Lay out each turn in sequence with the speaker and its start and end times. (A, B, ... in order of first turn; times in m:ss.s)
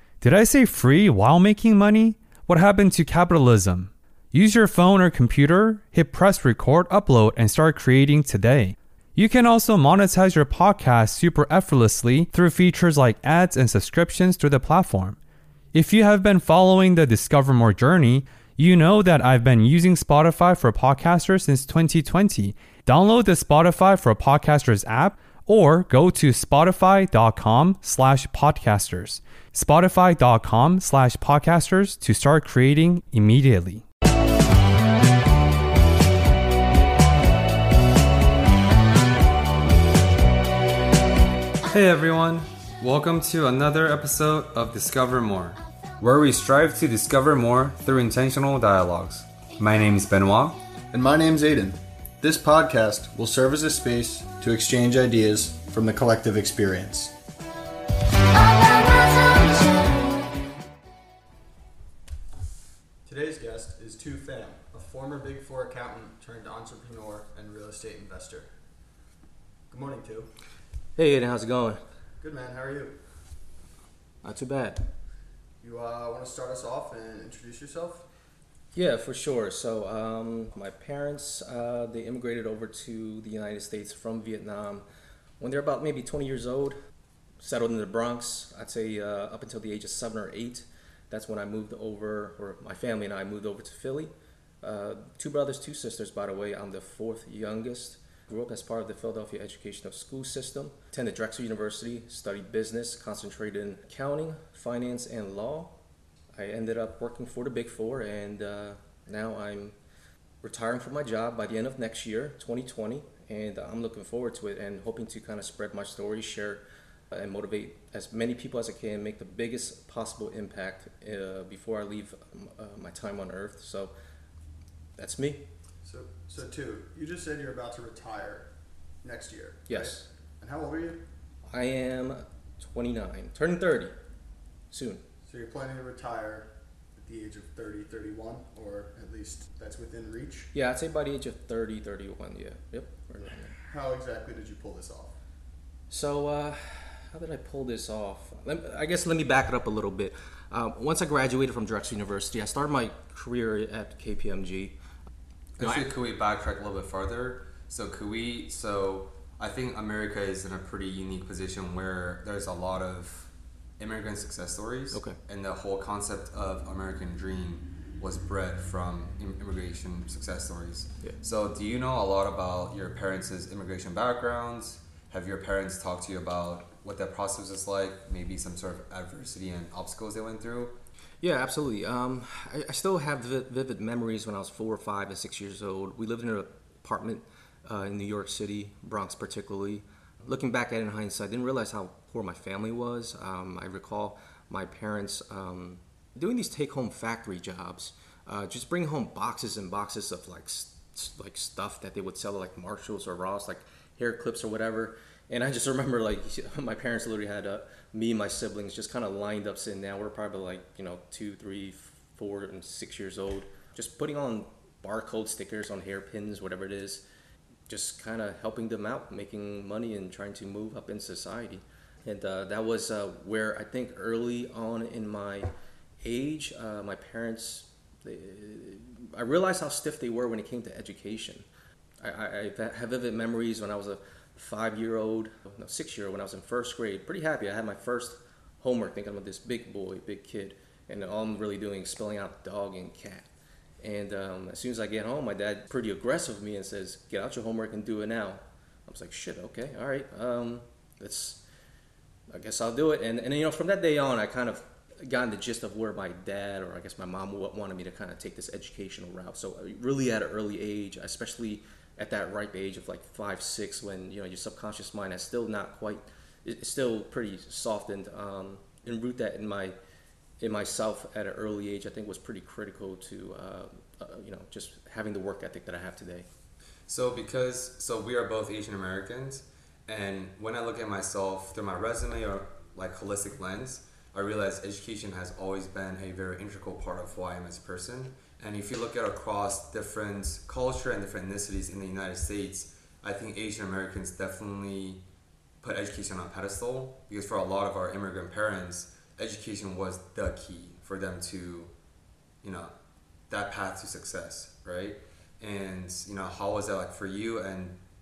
0:00.2-0:15.2 A
0:15.7-0:33.8 A
0:41.6-0:50.6 A
0:50.9-0:57.1 B
0:59.1-0:59.4 B
1:03.0-1:08.5 B
1:09.7-1:10.3 B
1:11.0-1:11.8 C
1:12.2-1:13.0 B
1:14.2-1:14.9 C
1:15.6-1:18.1 B
1:18.7-1:24.8 C
1:25.4-1:26.8 C
1:27.4-1:45.7 C
1:46.3-1:49.7 C
1:50.4-2:03.9 C
2:05.0-2:05.4 C
2:05.8-2:11.0 B
2:09.7-2:10.1 C
2:11.5-2:14.0 C
2:14.7-2:15.0 C
2:15.2-2:20.5 B
2:20.5-2:23.5 C
2:23.2-2:25.2 B
2:25.9-2:34.7 C
2:35.6-3:00.8 A
2:35.6-2:35.9 C
2:44.9-2:45.2 C
3:01.2-3:37.0 C
3:37.7-3:45.5 C
3:46.0-3:51.4 C
3:52.0-4:03.3 C
4:03.8-4:11.4 C
4:12.3-4:29.8 C
4:30.4-4:36.3 C
4:36.9-4:55.0 A
4:55.6-5:01.7 A
5:02.4-5:02.7 A
5:03.3-5:07.8 A